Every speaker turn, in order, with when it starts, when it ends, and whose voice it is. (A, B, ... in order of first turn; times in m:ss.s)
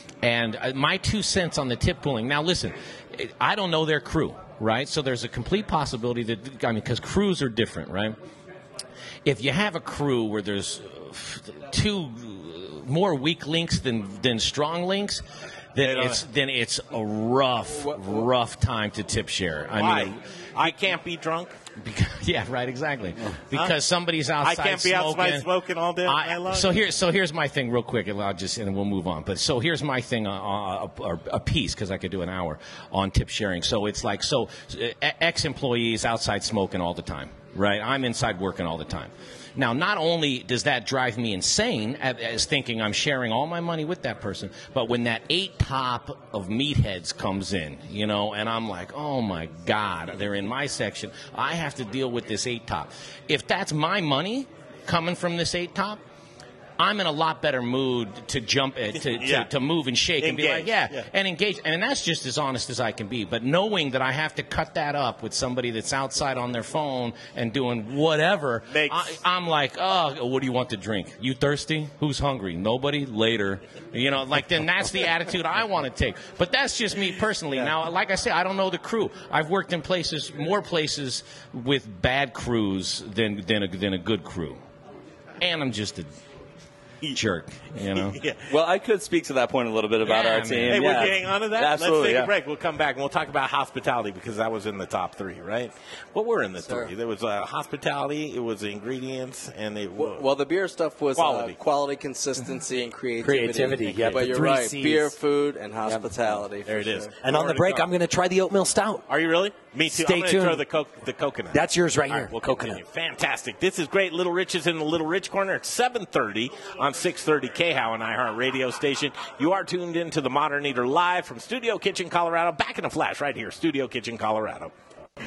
0:00.2-0:08.2 A
0:09.2-0:15.2 A
0:15.7-0:20.7 A
0:15.8-0:16.2 B
0:19.8-0:21.6 B
0:21.8-0:25.5 A
0:24.4-0:26.8 B
0:26.0-0:56.0 A
0:56.8-1:24.6 A
0:59.0-0:59.5 B
1:00.2-1:01.1 B
1:08.7-1:09.2 B
1:25.4-1:26.1 A
1:27.1-1:28.2 A
1:27.9-1:28.4 B
1:28.5-1:32.3 C
1:30.0-1:31.1 A
1:30.7-1:40.3 B
1:36.6-1:36.9 D
1:39.9-1:47.1 D
1:41.1-1:41.6 B
1:43.2-1:45.1 E
1:46.6-1:47.9 B
1:47.2-1:49.1 E
1:49.1-2:04.7 B
1:49.9-1:50.6 E
1:51.5-1:52.8 E